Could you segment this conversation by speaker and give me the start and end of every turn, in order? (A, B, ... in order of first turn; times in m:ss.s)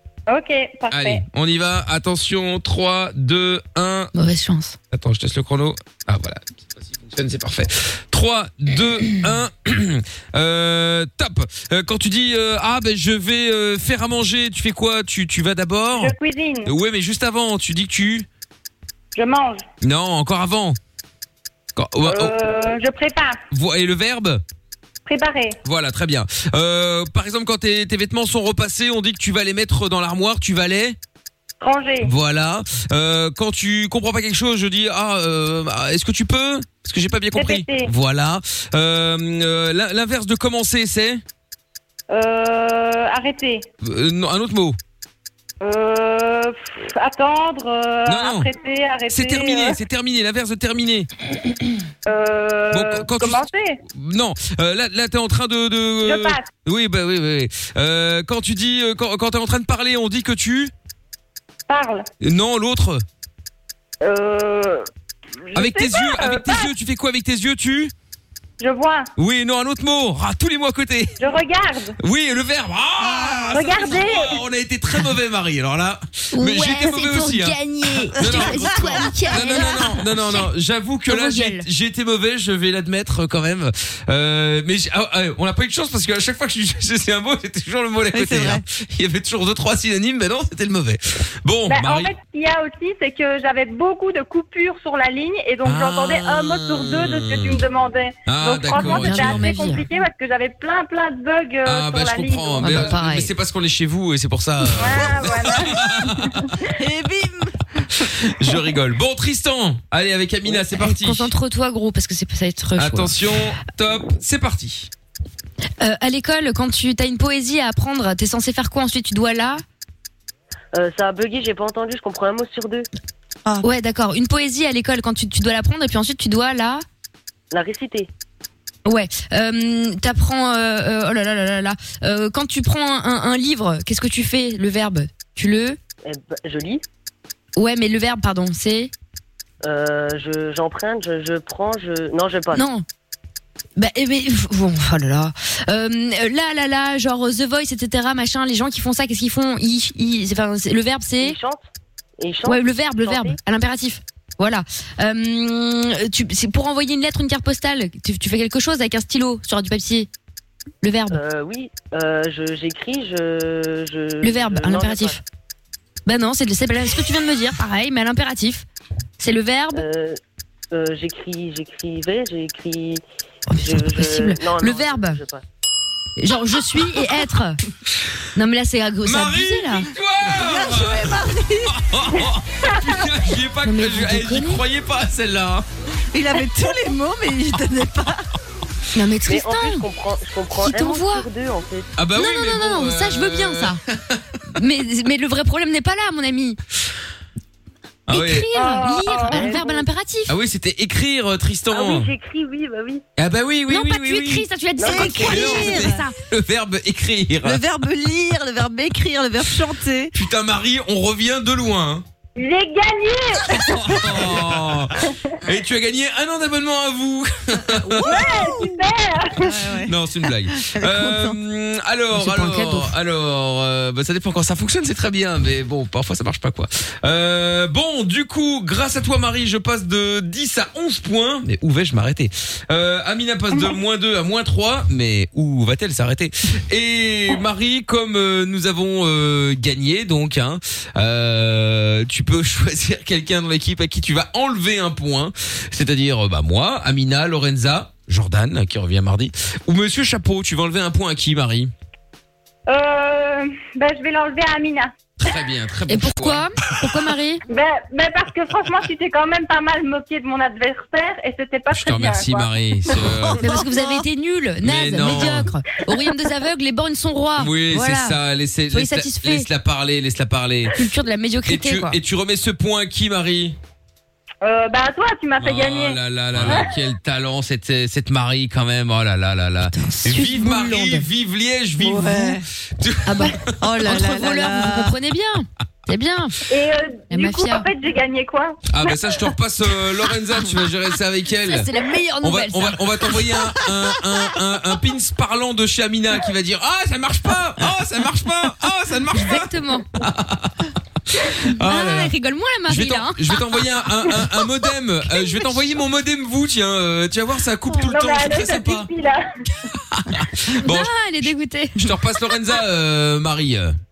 0:00.3-0:01.2 A
0:00.9-0:04.1 B
0:04.1-0:04.8 C
0:04.9-0:16.1 B
0:16.0-0:16.7 A
0:16.6-0:18.3 B
0:19.1-0:19.6 A
0:19.8-0:20.8 B
0:21.8-0:22.4 B
0:22.0-0:23.4 A
0:23.5-0:24.4 B
0:25.1-0:25.6 A
0:25.6-0:31.0 B
0:31.6-0:32.1 A
0:32.0-0:41.2 B
0:37.3-0:37.9 A
0:42.1-0:43.7 A
0:43.8-0:44.8 B
0:45.6-0:49.8 A
0:48.1-0:48.5 B
0:49.1-0:51.1 B
0:52.1-0:53.8 A
0:52.7-1:00.7 B
0:56.0-0:56.5 A
1:01.7-1:02.1 A
1:02.2-1:03.0 B
1:04.0-1:04.9 A
1:05.5-1:06.7 A
1:05.5-1:07.9 B
1:08.6-1:09.1 A
1:09.2-1:11.2 B
1:11.2-1:12.0 A
1:12.0-1:17.6 B
1:13.5-1:14.3 A
1:16.3-1:20.5 C
1:18.1-1:32.1 B
1:18.2-1:19.9 D
1:21.1-1:21.7 C
1:28.1-1:28.6 D
1:31.7-1:42.9 A
1:35.6-1:37.6 B
1:38.3-1:39.5 B
1:38.8-1:39.8 C
1:41.6-1:46.5 B
1:42.6-1:43.3 C
1:44.8-1:46.5 A
1:46.8-1:47.6 D
1:48.0-1:51.3 B
1:50.5-1:53.1 C
1:52.8-1:54.9 B
1:55.8-1:59.6 C
2:00.7-2:02.9 E
2:03.6-2:06.8 C
2:07.5-2:08.1 E
2:08.8-2:15.8 C
2:16.0-2:16.8 E
2:17.6-2:18.9 C
2:19.6-2:22.7 E
2:22.5-2:22.8 C
2:23.8-2:31.4 C
2:31.2-2:31.6 E
2:32.2-2:33.4 E
2:32.5-2:40.1 C
2:40.8-2:41.2 C
2:41.1-2:45.2 E
2:44.2-2:45.2 C
2:46.1-2:48.6 C
2:49.2-2:49.8 C
2:49.7-2:50.2 E
2:50.7-2:53.0 E
2:53.5-2:55.2 C
2:53.6-2:55.4 E
2:56.2-2:57.6 C
2:58.4-2:59.9 C
2:59.0-3:05.7 B
3:00.3-3:01.8 D
3:03.6-3:04.6 C
3:06.1-3:08.2 D
3:08.9-3:09.9 C
3:09.3-3:11.9 E
3:10.5-3:11.3 C
3:12.0-3:14.2 B
3:12.2-3:13.8 C
3:14.6-3:16.6 C
3:18.1-3:18.5 B
3:18.1-3:20.4 C
3:18.5-3:19.5 A
3:19.3-3:19.8 E
3:20.3-3:22.1 B
3:21.7-3:23.0 E
3:23.2-3:24.5 B
3:23.7-3:26.1 C
3:24.8-3:25.5 E
3:24.8-3:26.0 D
3:25.0-3:27.6 B
3:27.4-3:30.1 D
3:30.1-3:32.0 B
3:32.4-3:34.3 A
3:33.6-3:38.3 B
3:35.1-3:35.4 A
3:38.0-3:38.7 D
3:38.0-3:39.6 A
3:39.4-3:39.9 D
3:39.8-4:11.7 B
3:40.5-3:41.4 D
3:42.1-3:42.9 C
4:12.7-4:14.9 A
4:15.2-4:16.5 B
4:15.9-4:17.4 C
4:17.5-4:22.5 A
4:21.7-4:23.5 B
4:23.1-4:24.0 D
4:23.4-4:28.2 C
4:24.6-4:25.5 B
4:27.4-4:30.7 B
4:28.7-4:29.5 C
4:30.7-4:32.0 C
4:31.5-4:33.6 B
4:34.4-4:36.7 A
4:35.4-4:43.5 B
4:39.7-4:41.1 C
4:41.8-4:42.4 D
4:43.1-4:46.4 C
4:43.6-4:45.0 D
4:46.5-4:48.6 A
4:47.1-4:47.7 C
4:48.7-4:51.7 B
4:51.5-4:52.8 C
4:52.2-5:00.7 B
4:59.1-4:59.9 C
5:01.4-5:02.1 B
5:01.6-5:03.4 C
5:02.7-5:08.9 B
5:07.8-5:09.3 A
5:09.6-5:13.8 B
5:10.6-5:11.9 C